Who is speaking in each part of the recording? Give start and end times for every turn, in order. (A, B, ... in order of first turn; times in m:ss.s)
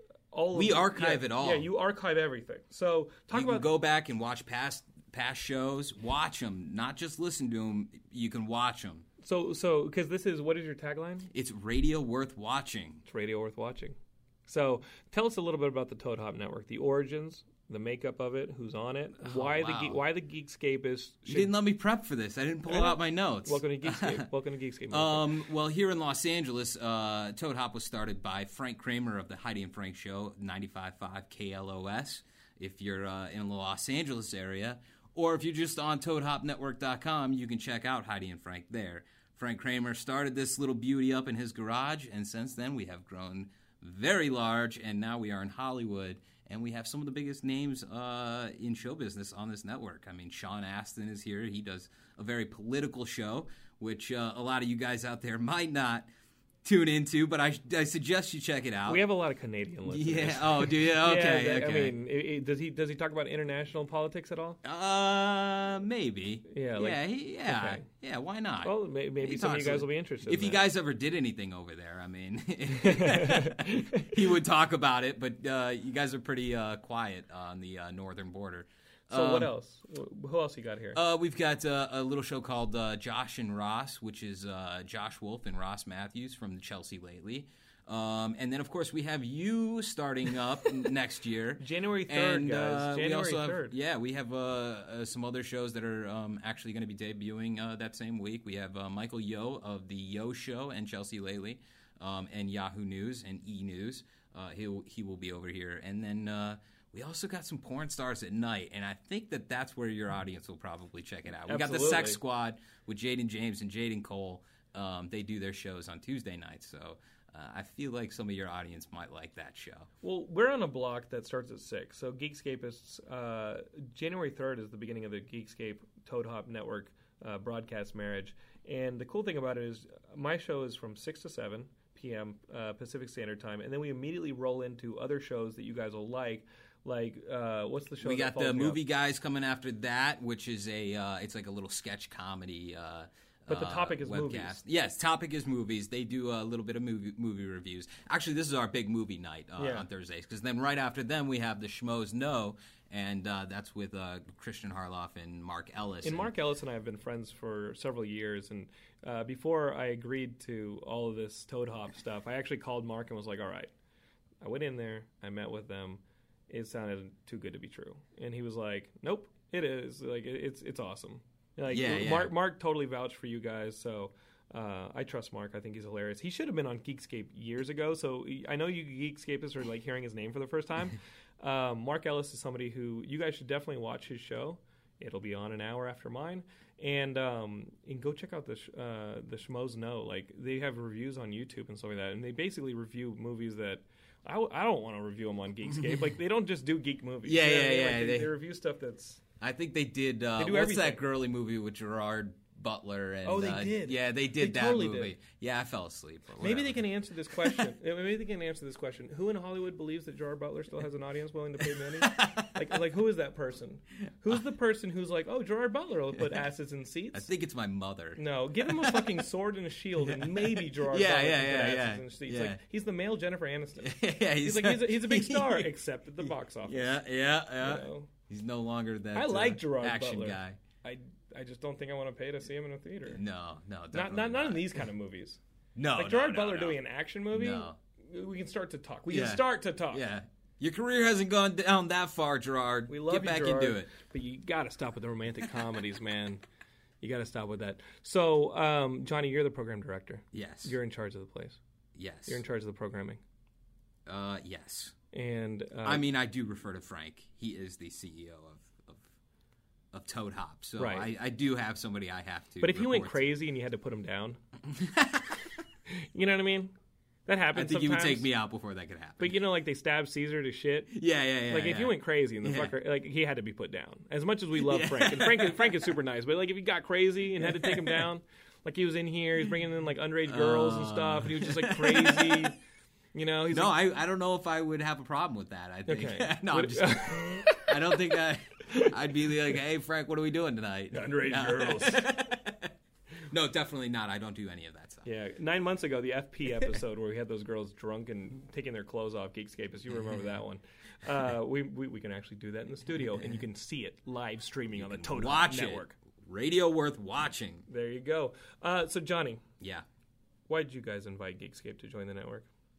0:00.3-0:03.7 A
0:00.5-0:01.7 B
0:03.3-0:09.1 B
0:09.2-0:11.3 A
0:11.3-0:13.0 B
0:13.0-0:21.5 A
0:19.2-0:20.0 B
0:21.3-0:24.3 B
0:22.7-0:25.3 A
0:24.9-0:56.1 B
0:56.6-0:59.0 B
0:58.9-1:04.6 A
0:59.9-1:02.0 B
1:04.6-1:19.5 B
1:06.5-1:07.8 A
1:08.6-1:10.6 A
1:12.8-1:14.1 A
1:19.1-1:21.0 A
1:20.9-1:59.9 B
1:31.6-1:33.8 A
1:51.5-1:52.2 A
2:00.0-2:18.8 A
2:18.0-2:36.3 B
2:23.5-2:24.6 A
2:29.6-2:29.9 A
2:36.0-2:43.7 A
2:44.4-3:19.2 A
2:51.7-2:52.3 B
3:15.7-3:16.1 B
3:17.2-3:18.3 B
3:19.4-3:27.0 B
3:20.3-3:21.0 A
3:23.2-3:25.2 A
3:26.4-3:37.3 A
3:31.6-3:32.6 B
3:36.2-3:36.5 B
3:37.1-3:39.1 B
3:38.2-3:47.0 A
3:40.0-3:42.6 B
3:43.8-3:50.6 B
3:47.6-3:48.1 A
3:49.1-3:53.2 A
3:53.1-3:54.8 B
3:53.9-3:55.4 A
3:55.8-3:57.8 B
3:55.9-4:00.0 A
3:59.1-4:03.9 B
4:02.9-4:06.4 A
4:07.0-4:11.6 A
4:10.3-4:10.7 B
4:12.0-4:12.4 B
4:12.3-4:13.2 A
4:14.1-4:14.9 B
4:15.1-4:16.1 A
4:15.8-4:19.0 B
4:19.9-4:23.3 B
4:20.8-4:21.1 A
4:22.6-4:24.4 A
4:24.7-4:25.4 B
4:25.9-4:26.7 A
4:27.2-4:28.3 A
4:27.5-4:29.4 B
4:29.2-4:30.9 A
4:30.9-4:32.8 B
4:31.5-4:42.5 A
4:34.6-4:35.9 B
4:37.5-4:38.1 B
4:40.2-4:42.5 B
4:43.1-4:43.8 A
4:43.5-4:52.7 B
4:45.9-4:48.0 A
4:50.9-4:52.1 A
4:53.3-4:55.1 B
4:55.0-5:06.0 A
5:04.8-5:07.6 B
5:07.7-5:09.4 A
5:09.6-5:09.8 B
5:10.5-5:12.5 A